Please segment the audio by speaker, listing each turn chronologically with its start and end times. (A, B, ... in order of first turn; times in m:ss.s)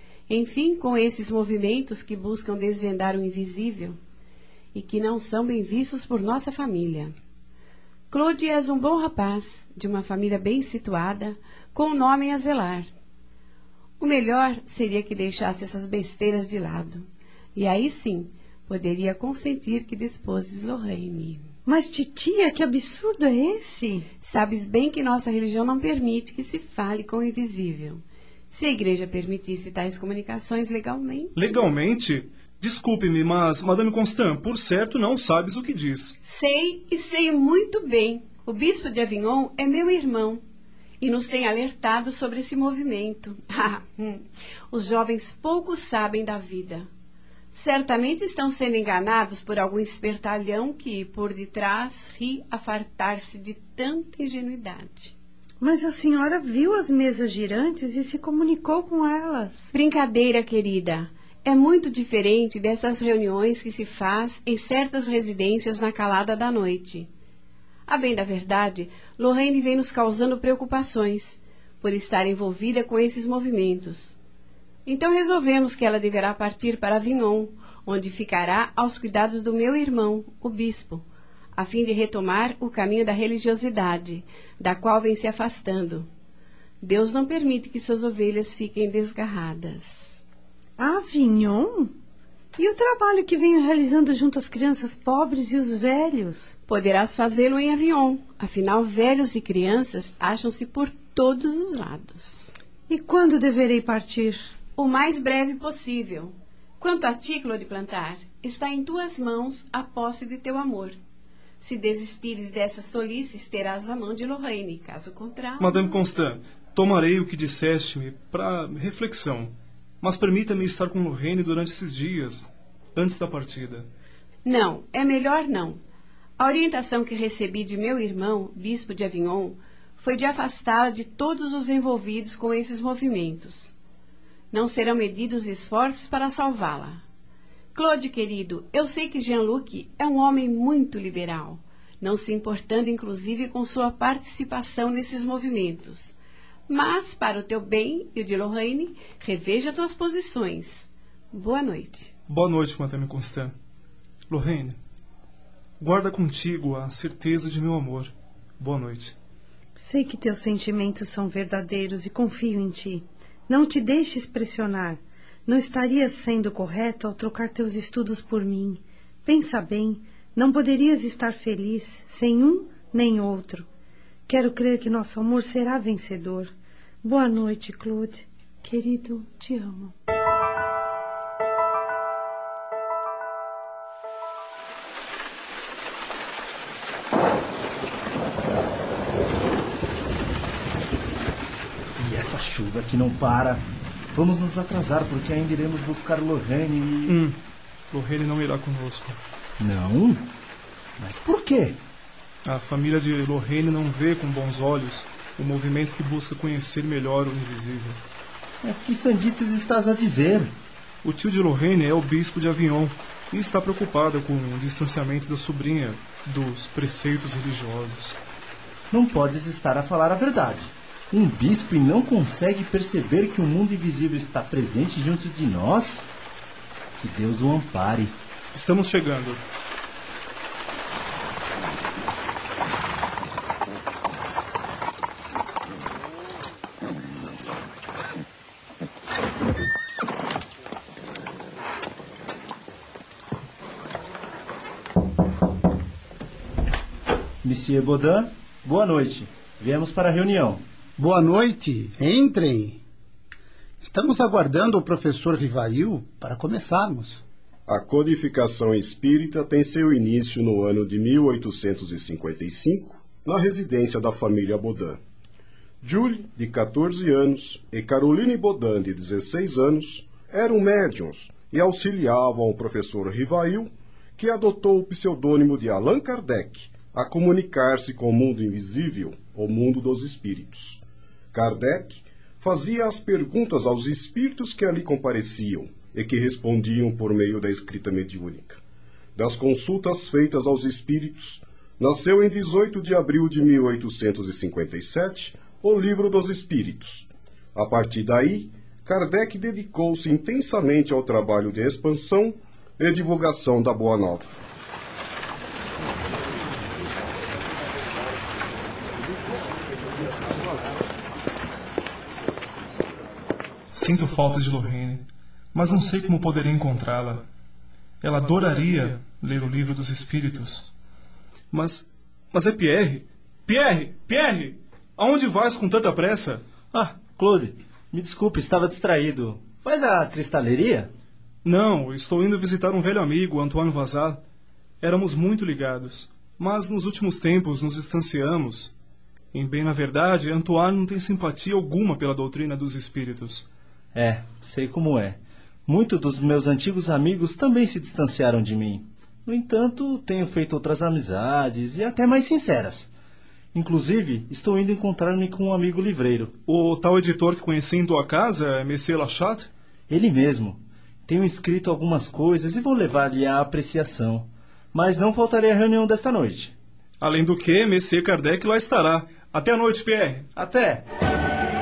0:00.3-0:04.0 A
0:04.7-0:07.1 A
0:08.1-0:12.9 A
0:14.0-0:21.5 A
0:21.7-0:24.1 B
0:24.2-0:31.4 A
0:31.4-0:36.2 C
0:36.2-0:40.4 A
0:41.0-0:46.9 A
0:47.5-0:55.1 A
0:55.6-0:59.7 B
0:59.7-1:07.1 A
1:07.9-1:14.2 A
1:14.9-1:21.0 A
1:21.6-1:26.1 A
1:26.8-1:30.2 A
1:30.8-1:31.9 B
1:32.6-1:36.5 B
1:36.7-1:42.5 A
1:42.9-1:44.4 B
1:44.8-1:51.0 A
1:51.6-1:55.9 A
1:55.6-2:03.9 C
2:04.4-2:05.8 A
2:06.4-2:13.7 A
2:14.5-2:17.0 A
2:17.7-2:26.2 A
2:26.7-2:32.1 A
2:32.3-2:33.5 C
2:34.3-2:34.8 C
2:35.8-2:39.2 C
2:39.8-2:53.7 B
2:54.3-2:56.5 B
2:57.0-3:00.0 B
3:12.0-3:17.2 D
3:17.1-3:17.4 C
3:17.9-3:19.2 C
3:19.6-3:20.3 D
3:21.0-3:21.8 D
3:22.5-3:28.0 C
3:28.6-3:30.5 D
3:31.0-3:38.2 C
3:38.9-3:46.1 D
3:47.0-3:48.2 D
3:48.5-3:49.4 C
4:07.4-4:10.6 D
4:11.0-4:12.8 E
4:13.8-4:17.2 E
4:17.7-4:25.0 F
4:25.8-4:40.8 F
4:41.3-4:48.6 F
4:49.2-5:04.3 F
5:13.7-5:17.2 C
5:18.0-5:20.7 C
5:21.5-5:26.4 C
5:26.7-5:30.9 D
5:31.4-5:34.2 C
5:34.8-5:38.7 C
5:39.3-5:43.5 C
5:43.9-5:52.9 D
5:53.5-5:56.4 D
5:56.5-5:59.5 C
5:59.9-6:06.6 D
6:07.0-6:10.3 C
6:10.4-6:10.8 D